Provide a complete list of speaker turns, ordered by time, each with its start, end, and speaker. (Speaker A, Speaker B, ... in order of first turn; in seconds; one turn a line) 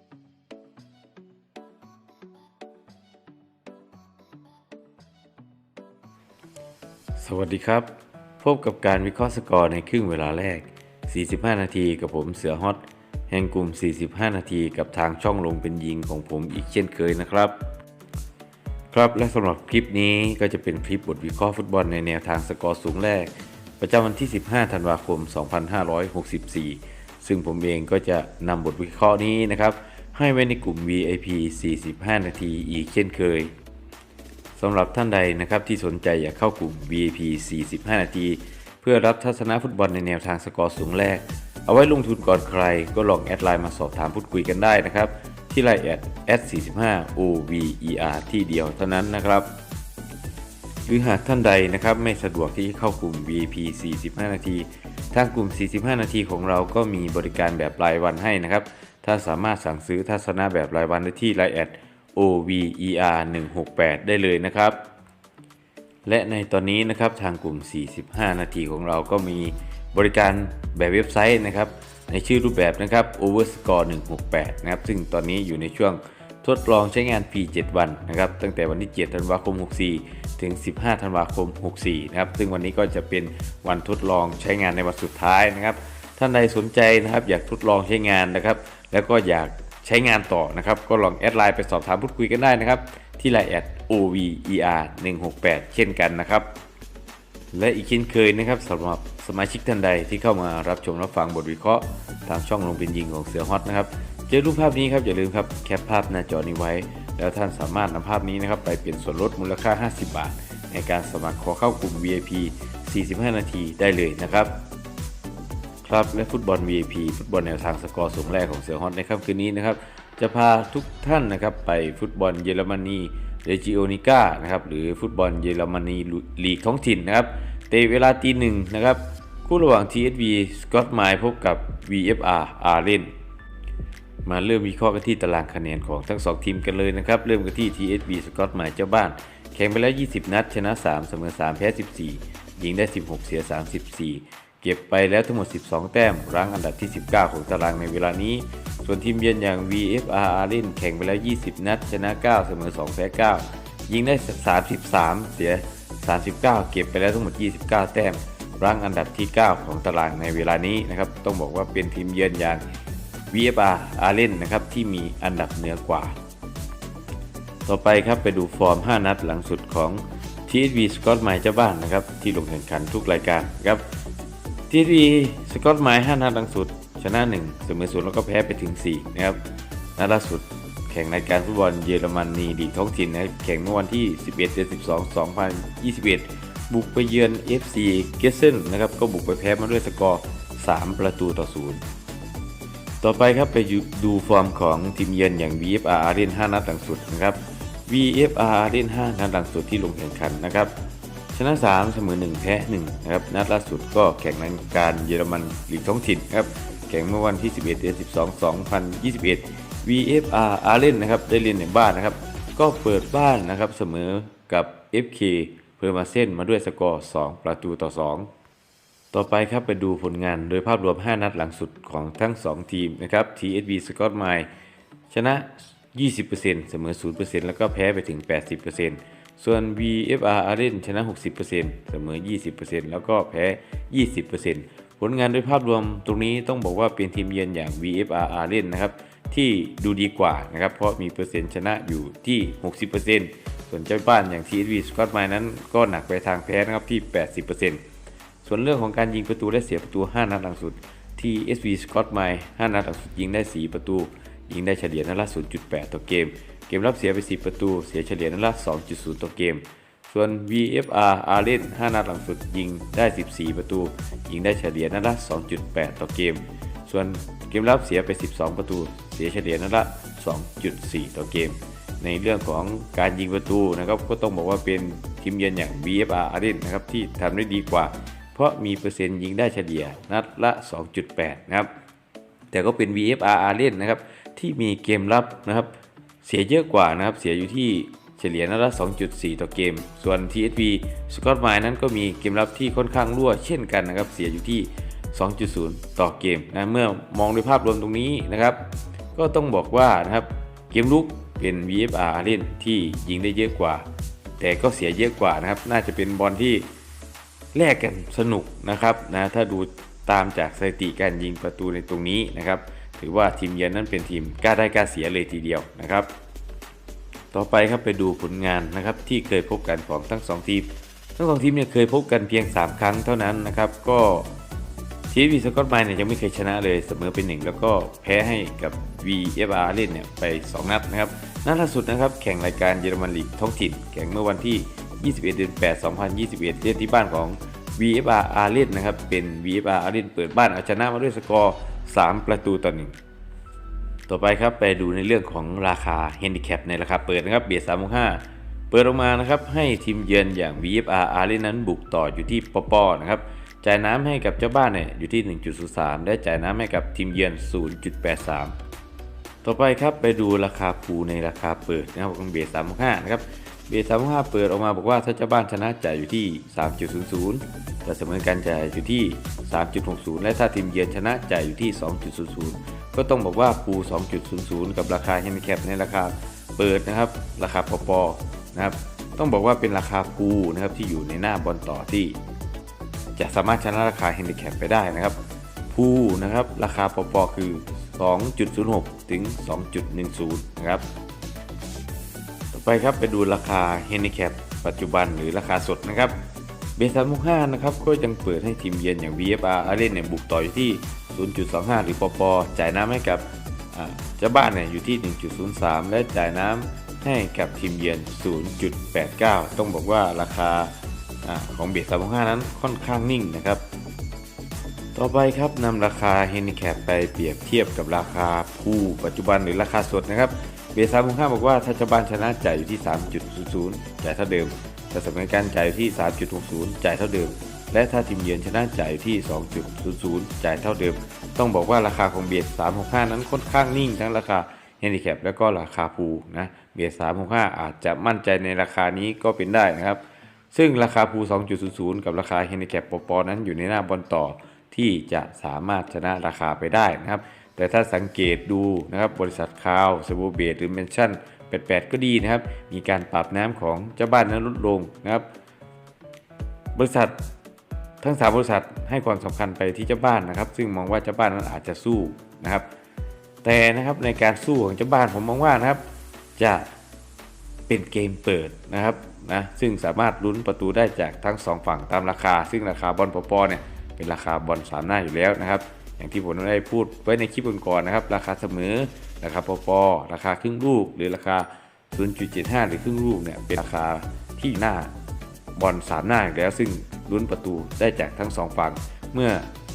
Speaker A: 7.2-7.9
Speaker A: 8.4-17.6
Speaker A: 18.9-33.5
Speaker A: 34.6-49.5
Speaker A: 50.9-64.8
Speaker A: 66.0-96.5
Speaker A: 97.5-114.6
Speaker A: 115.8-133.1
Speaker A: 134.2-162.6
Speaker A: 163.3-166.2
Speaker A: 167.7-173.9
Speaker A: 174.7-179.4
Speaker A: 180.0-191.8
Speaker A: 193.0-200.7
Speaker A: 201.3-218.3
Speaker A: 219.1-224.5
Speaker A: 225.1-247.8
Speaker A: 248.4-281.7
Speaker A: 282.5-303.9
Speaker A: 304.4-306.7
Speaker A: 307.5-316.1
Speaker A: 317.3-324.3
Speaker A: 325.1-342.9
Speaker A: 344.1-358.6
Speaker A: 359.4-382.2
Speaker A: 383.2-385.2
Speaker A: 385.7-390.8
Speaker A: 392.5-396.2
Speaker A: 396.8-413.6
Speaker A: 414.9-440.0
Speaker A: 440.5-455.3
Speaker A: 456.8-457.2
Speaker A: 458.0-462.7
Speaker A: 463.4-465.8
Speaker A: 466.4-466.7
Speaker A: 467.7-484.9
Speaker A: 485.6-489.5